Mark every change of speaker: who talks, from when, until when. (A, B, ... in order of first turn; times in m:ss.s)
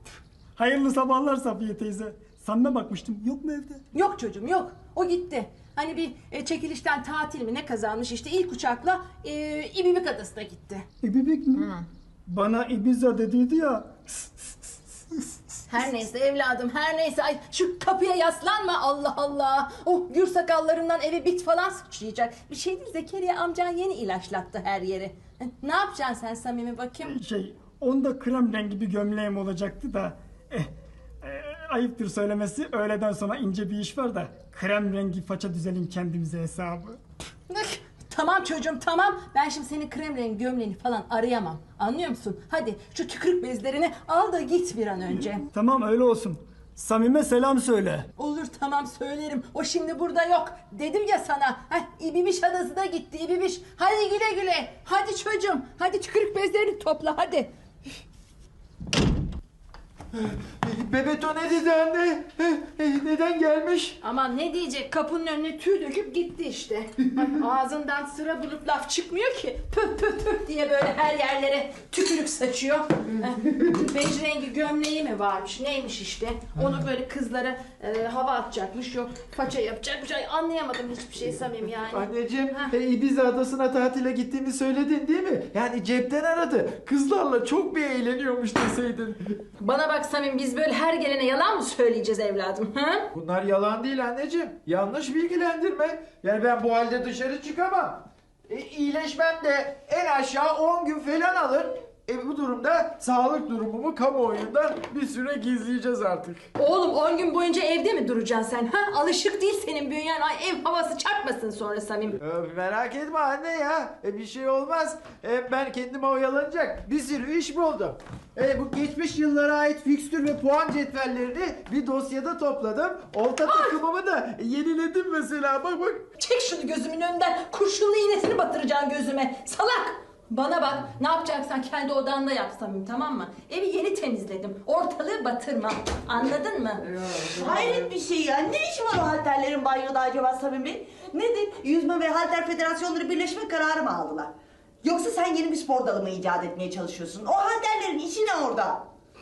0:00.6-0:03.8 A
0:03.9-0:10.9 B
0:11.0-0:15.9 A
0:15.7-0:27.2 B
0:27.0-0:37.0 A
0:37.5-0:45.4 B
0:45.5-0:48.1 A
0:48.2-0:57.5 B
1:00.1-1:04.0 C
1:04.0-1:22.7 B
1:21.9-1:29.4 C
1:29.6-1:33.0 B
1:33.1-1:46.5 C
1:46.6-1:52.2 B
1:52.2-2:06.0 C
2:03.4-2:03.8 B
2:06.2-2:16.9 B
2:17.3-2:28.9 D